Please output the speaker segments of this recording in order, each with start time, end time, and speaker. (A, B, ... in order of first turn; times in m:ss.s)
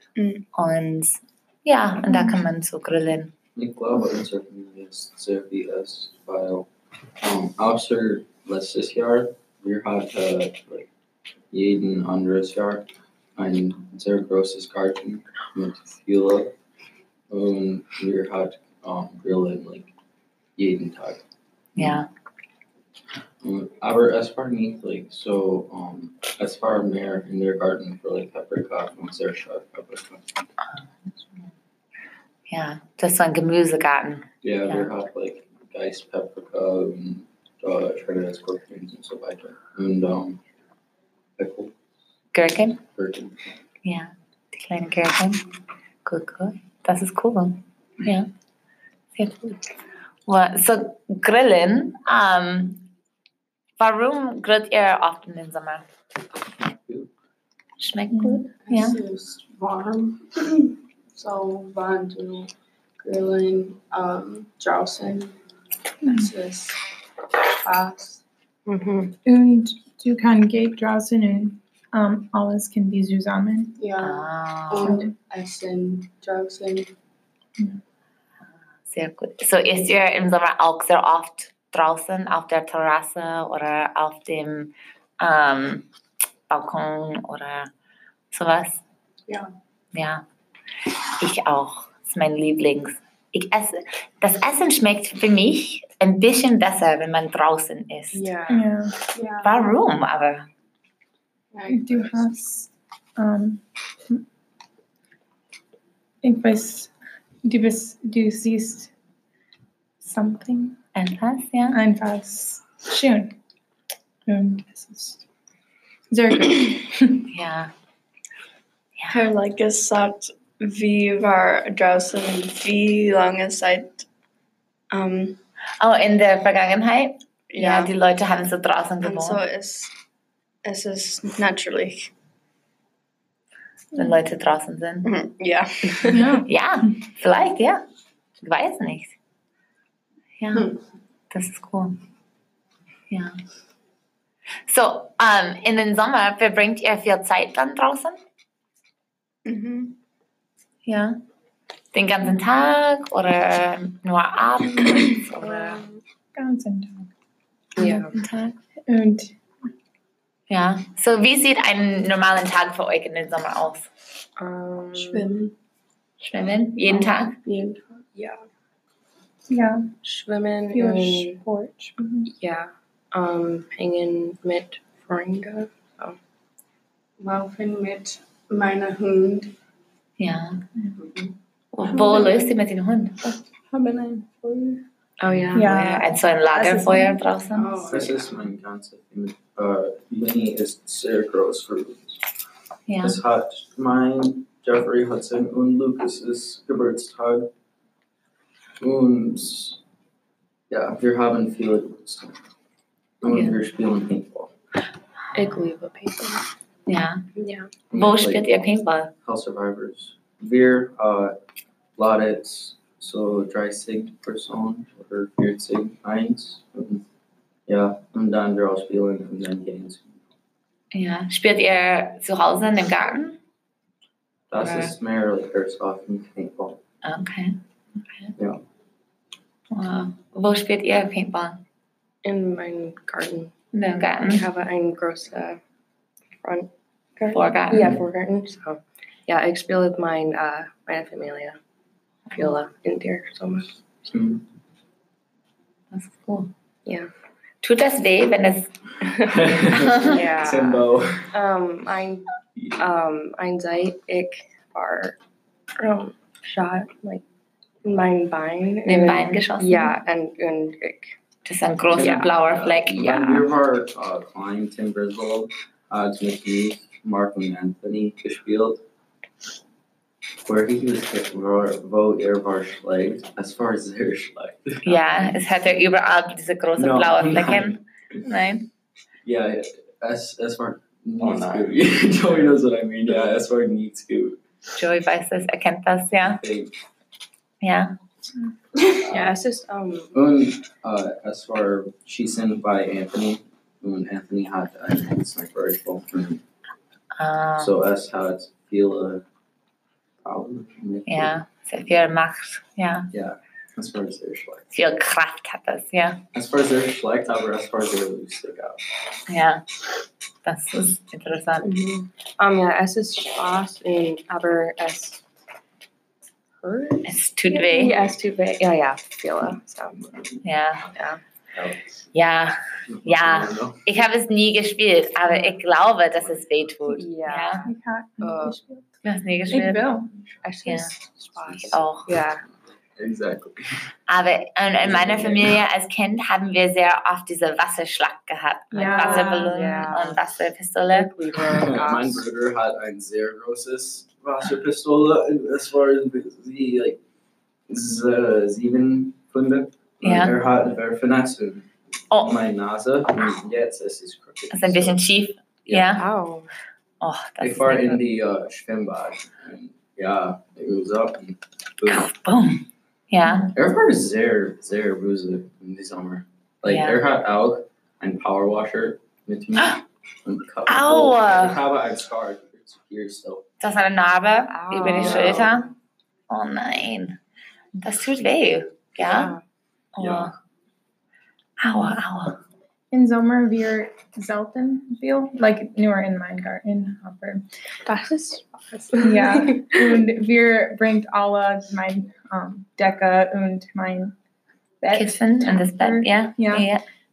0:00.2-0:00.4 A
0:00.6-0:03.3 B
0:03.6-0:06.7 C
0:07.2-0:10.9 C
0:11.5-0:16.5 C
0:17.3-0:19.9 C
0:20.6-0:21.2 C
0:21.8-0:22.1 B
0:23.4-0:30.2 C
0:32.5-0:34.9 B
0:34.4-0:40.4 C
0:41.4-0:41.7 C
0:42.3-0:42.8 B
0:43.0-0:43.6 C
0:43.8-0:45.4 B
0:46.0-0:48.3 B
0:49.2-0:49.7 B
0:50.3-0:52.9 B
0:53.8-0:55.8 B
0:56.6-0:57.1 C
0:57.8-0:59.0 B
0:58.1-0:58.4 D
0:58.6-1:05.4 E
1:06.0-1:06.3 D
1:06.1-1:06.8 E
1:07.4-1:08.2 E
1:08.7-1:09.1 F
1:09.2-1:13.8 D
1:13.8-1:16.9 E
1:14.0-1:15.0 B
1:14.8-1:15.1 D
1:18.9-1:25.9 B
1:26.5-1:27.7 B
1:28.3-1:28.8 B
1:29.9-1:30.2 B
1:31.2-1:38.3 B
1:38.1-1:38.7 F
1:38.5-1:39.0 D
1:39.1-1:39.6 E
1:39.4-1:40.5 B
1:41.5-1:42.3 E
1:41.7-1:44.2 D
1:46.2-1:46.9 D
1:47.4-1:48.9 D
1:50.0-1:50.8 D
1:51.0-1:51.8 B
1:51.7-1:53.4 D
1:54.3-1:55.2 D
1:56.1-1:57.2 D
1:57.3-1:57.7 B
1:59.0-1:59.2 B
1:59.1-2:04.1 A
2:04.9-2:05.4 A
2:05.8-2:09.4 B
2:07.5-2:07.9 A
2:09.0-2:09.9 A
2:10.6-2:12.1 A
2:14.0-2:15.1 B
2:15.0-2:16.4 A
2:15.9-2:17.8 B
2:16.1-2:16.5 D
2:18.4-2:19.1 B
2:20.4-2:20.8 B
2:21.3-2:22.0 B
2:23.1-2:23.4 B
2:24.7-2:28.2 B
2:29.4-2:30.0 A
2:30.9-2:31.2 B
2:31.9-2:35.8 B
2:36.4-2:37.1 D
2:37.8-2:38.1 F
2:37.8-2:39.3 D
2:40.5-2:43.9 B
2:44.4-2:45.3 F
2:45.0-2:45.5 A
2:46.2-2:47.4 B
2:47.5-2:47.8 A
2:49.5-2:49.9 D
2:50.0-2:51.4 F
2:50.7-2:52.3 D
2:52.3-2:56.2 F
2:57.2-2:59.5 E
3:00.2-3:00.6 B
3:01.7-3:03.2 B
3:01.9-3:02.2 E
3:03.7-3:04.8 E
3:05.2-3:06.0 F
3:05.3-3:07.9 B
3:05.5-3:07.2 D
3:07.5-3:08.4 E
3:07.9-3:12.2 C
3:12.9-3:13.2 B
3:13.0-3:17.5 C
3:18.8-3:19.8 C
3:20.7-3:22.4 C
3:23.2-3:24.5 C
3:23.3-3:23.6 B
3:25.3-3:26.5 F
3:26.9-3:27.2 B
3:27.4-3:27.7 F
3:27.9-3:31.4 C
3:27.9-3:29.1 B
3:32.0-3:37.0 C
3:37.7-3:40.3 C
3:40.9-3:43.4 B
3:44.5-3:46.8 C
3:44.6-3:44.9 B
3:47.0-3:47.6 B
3:48.4-3:48.6 C
3:49.7-3:51.6 B
3:52.2-3:53.5 F
3:53.7-3:54.5 B
3:54.2-3:55.6 F
3:56.4-4:01.6 F
3:57.3-3:58.0 B
4:02.3-4:02.6 B
4:02.4-4:03.8 F
4:04.1-4:04.4 C
4:05.9-4:06.5 B
4:07.6-4:08.7 B
4:09.0-4:09.5 F
4:09.2-4:11.3 C
4:09.7-4:10.2 B
4:10.0-4:12.2 F
4:12.6-4:12.8 C
4:12.8-4:15.2 F
4:15.8-4:17.2 F
4:17.8-4:21.2 F
4:18.9-4:20.0 B
4:21.4-4:23.4 B
4:22.0-4:28.8 C
4:22.0-4:22.3 F
4:30.4-4:35.4 C
4:34.8-4:38.7 B
4:36.8-4:37.8 C
4:39.2-4:44.4 C
4:44.8-4:46.4 B
4:46.2-4:46.7 C
4:47.6-4:47.9 B
4:48.9-4:50.1 F
4:49.1-4:49.3 C
4:50.1-4:56.4 C
4:57.2-4:57.8 B
4:57.6-4:59.2 C
5:00.2-5:01.4 C
5:01.1-5:03.1 B
5:03.1-5:04.6 C
5:04.7-5:06.2 B
5:06.3-5:08.8 C
5:09.3-5:09.6 B
5:10.4-5:11.7 B
5:11.6-5:15.2 F
5:16.6-5:20.0 F
5:17.0-5:18.0 B
5:20.0-5:20.4 C
5:20.4-5:20.9 B
5:21.0-5:21.2 F
5:21.5-5:21.8 C
5:22.1-5:27.7 B
5:22.9-5:23.8 C
5:25.2-5:25.5 F
5:26.2-5:26.6 C
5:26.9-5:28.6 F
5:27.7-5:28.9 D
5:29.0-5:30.0 B
5:29.5-5:30.1 D
5:30.4-5:32.4 F
5:30.6-5:30.9 B
5:31.4-5:31.8 C
5:31.6-5:32.1 B
5:33.0-5:33.6 C
5:34.1-5:41.1 B
5:34.8-5:35.6 C
5:38.7-5:39.5 D
5:38.8-5:40.2 F
5:40.9-5:42.2 F
5:41.4-5:47.0 C
5:47.7-5:55.0 C
5:50.0-5:50.3 B
5:52.1-5:52.4 B
5:54.5-5:56.1 B
5:55.8-5:56.5 F
5:57.0-5:58.0 B
5:57.4-6:02.1 C
6:01.9-6:03.5 B
6:03.5-6:13.5 C
6:06.6-6:07.0 B
6:10.7-6:11.6 B
6:13.6-6:15.7 B
6:14.5-6:15.7 F
6:14.8-6:15.6 C
6:16.3-6:17.2 B
6:17.8-6:19.4 B
6:19.0-6:19.4 F
6:20.0-6:20.3 B
6:20.0-6:20.3 C
6:21.6-6:22.4 B
6:22.9-6:27.5 D
6:27.9-6:30.0 F
6:29.0-6:34.1 D
6:34.8-6:36.7 D
6:34.9-6:36.8 B